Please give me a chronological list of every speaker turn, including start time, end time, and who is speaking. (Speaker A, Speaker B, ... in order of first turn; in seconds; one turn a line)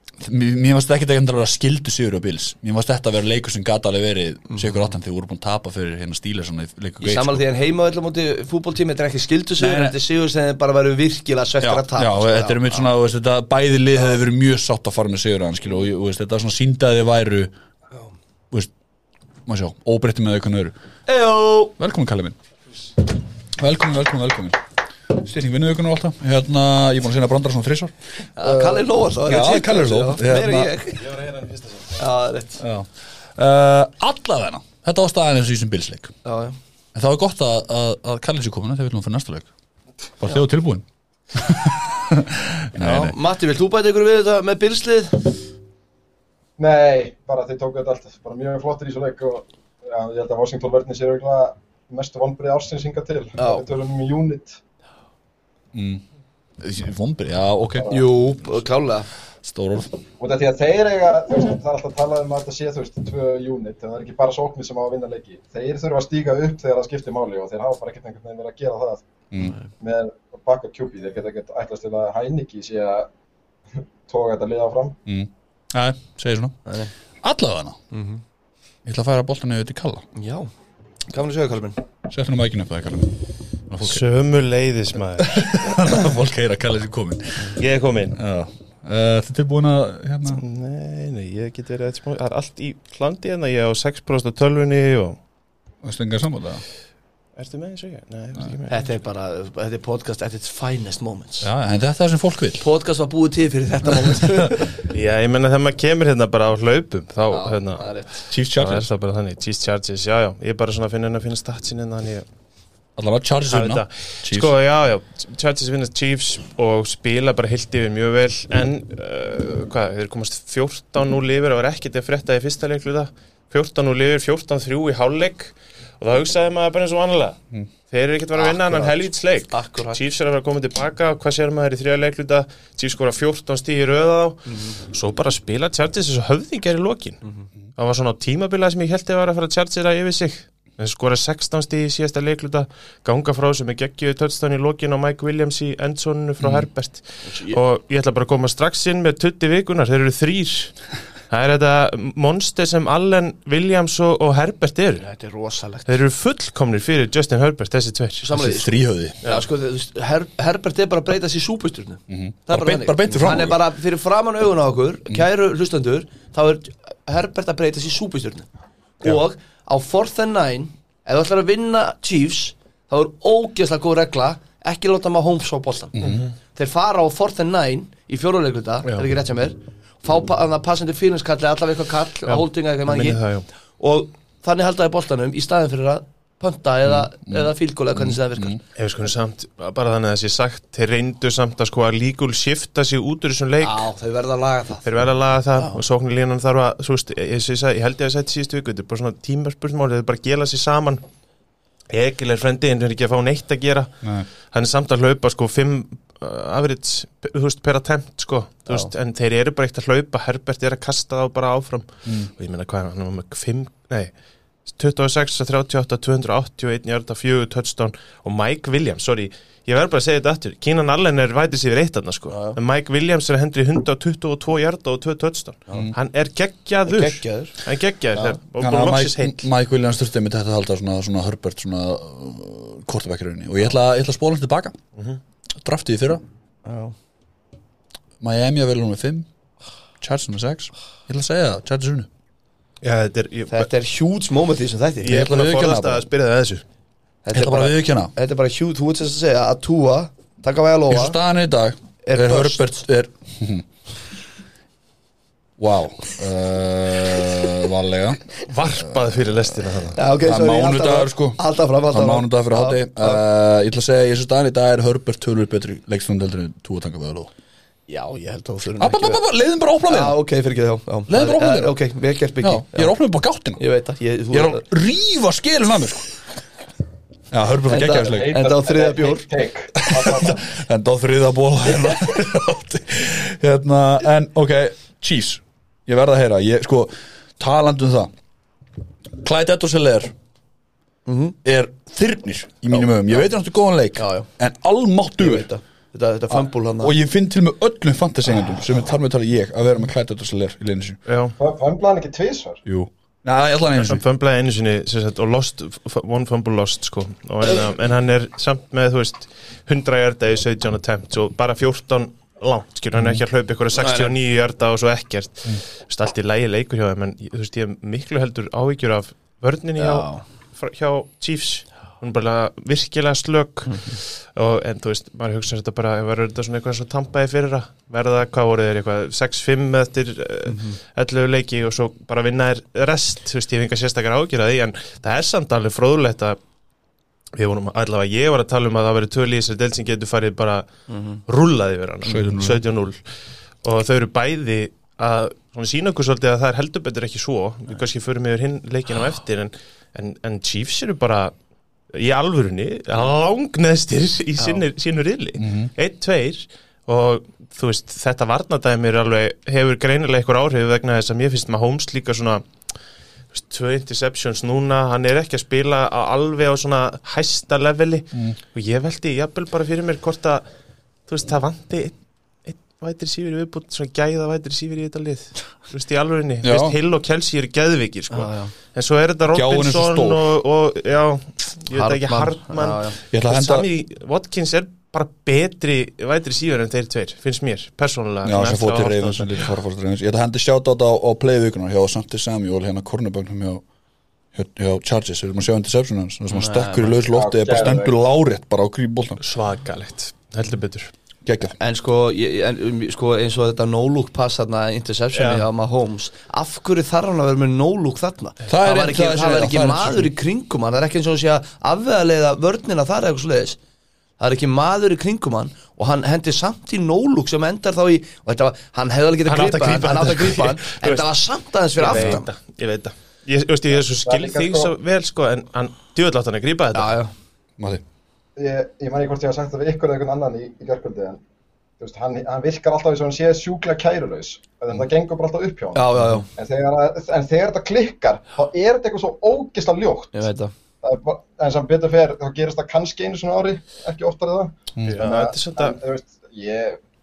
Speaker A: 0.2-7.4
Speaker B: 7.0-12.9
Speaker A: 9.6-10.0
Speaker A: 11.6-17.5
Speaker A: 19.4-20.7
Speaker B: 21.1-21.7
Speaker A: 21.8-22.4
Speaker A: 23.5-30.7
Speaker B: 28.4-31.1
Speaker C: 31.0-32.0
Speaker B: 32.0-32.6
Speaker A: 32.6-36.1
Speaker B: 36.2-36.6
Speaker A: 36.9-39.5
Speaker A: 40.2-43.1
Speaker B: 42.8-45.4
Speaker D: 46.6-54.6
Speaker B: 53.4-53.6
Speaker A: 55.7-56.0
Speaker A: 56.6-58.0
Speaker B: 57.9-59.1
Speaker A: 59.4-60.0
Speaker D: 60.2-69.0
Speaker D: 69.8-73.1
Speaker D: 74.1-75.0
Speaker A: 75.0-76.6
Speaker B: 76.7-76.9
Speaker A: 77.2-77.8
Speaker B: 77.9-78.2
Speaker A: 78.8-80.0
Speaker B: 80.1-80.5
Speaker B: 81.1-81.8
Speaker A: 82.1-84.0
Speaker C: 83.8-85.9
Speaker A: 85.2-87.6
Speaker C: 87.5-88.2
Speaker A: 88.1-90.4
Speaker C: 90.3-95.2
Speaker A: 95.8-96.6
Speaker C: 97.3-98.9
Speaker B: 98.7-101.5
Speaker A: 101.4-102.6
Speaker B: 102.6-104.8
Speaker C: 104.9-112.2
Speaker B: 107.3-108.2
Speaker A: 108.3-108.9
Speaker A: 113.0-114.5
Speaker C: 113.5-127.4
Speaker C: 127.9-137.2
Speaker B: 128.4-130.0
Speaker C: 137.8-150.7
Speaker A: 146.4-146.7
Speaker B: 147.2-147.6
Speaker C: 151.3-155.0
Speaker B: 155.0-155.9
Speaker C: 155.9-158.2
Speaker B: 158.2-168.5
Speaker A: 158.3-159.2
Speaker A: 162.1-163.6
Speaker B: 169.0-176.0
Speaker A: 175.9-176.2
Speaker C: 176.0-176.3
Speaker B: 176.5-183.2
Speaker C: 182.3-183.4
Speaker B: 183.8-188.6
Speaker A: 186.8-188.6
Speaker C: 188.8-193.8
Speaker B: 193.6-194.9
Speaker C: 194.8-201.0
Speaker C: 201.9-203.9
Speaker A: 204.0-204.3
Speaker C: 204.5-214.1
Speaker C: 214.7-229.4
Speaker B: 222.3-222.6
Speaker B: 226.8-227.6
Speaker A: 228.6-234.8
Speaker A: 235.6-236.2
Speaker B: 236.6-236.9
Speaker A: 238.2-239.3
Speaker A: 240.0-242.1
Speaker C: 242.8-243.7
Speaker B: 243.5-245.2
Speaker C: 245.0-246.6
Speaker A: 245.0-246.0
Speaker B: 247.2-251.2
Speaker A: 247.3-248.1
Speaker A: 250.9-253.7
Speaker B: 252.0-252.8
Speaker A: 255.6-258.2
Speaker C: 258.4-260.0
Speaker B: 259.9-263.2
Speaker A: 260.2-261.4
Speaker A: 261.9-267.3
Speaker B: 267.9-269.2
Speaker A: 268.8-270.2
Speaker B: 269.9-272.9
Speaker A: 271.1-271.8
Speaker A: 272.4-273.6
Speaker B: 273.6-274.6
Speaker A: 274.3-276.1
Speaker A: 277.3-278.4
Speaker B: 277.7-279.3
Speaker D: 277.9-280.5
Speaker A: 279.8-288.1
Speaker A: 289.1-290.1
Speaker B: 291.1-291.4
Speaker A: 291.4-295.5
Speaker B: 292.7-293.2
Speaker B: 294.0-294.3
Speaker B: 295.2-296.9
Speaker A: 296.3-301.0
Speaker C: 301.1-301.3
Speaker D: 301.4-302.6
Speaker A: 302.6-304.0
Speaker C: 303.8-336.4
Speaker B: 313.8-314.1
Speaker B: 319.8-320.2
Speaker B: 330.5-330.8
Speaker C: 337.3-340.7
Speaker B: 340.9-341.2
Speaker C: 341.2-343.0
Speaker A: 342.0-342.6
Speaker C: 343.6-351.3
Speaker C: 351.9-362.4
Speaker A: 355.4-355.7
Speaker C: 363.3-370.4
Speaker C: 371.1-371.9
Speaker C: 372.4-389.4
Speaker A: 376.4-376.8
Speaker B: 378.1-378.5
Speaker A: 379.3-380.3
Speaker B: 381.7-383.0
Speaker A: 383.1-383.7
Speaker A: 388.2-393.6
Speaker A: 394.3-399.2
Speaker B: 396.3-397.0
Speaker D: 397.1-397.9
Speaker C: 399.2-400.9
Speaker A: 401.2-401.6
Speaker B: 401.6-413.6
Speaker C: 405.1-405.4
Speaker A: 408.5-410.1
Speaker B: 414.2-422.3
Speaker C: 419.2-421.1
Speaker C: 421.8-426.9
Speaker D: 423.7-424.7
Speaker B: 426.7-427.1
Speaker D: 428.4-431.2
Speaker D: 431.8-440.2
Speaker B: 435.7-436.3
Speaker B: 440.1-440.5
Speaker D: 440.8-446.8
Speaker C: 444.9-445.8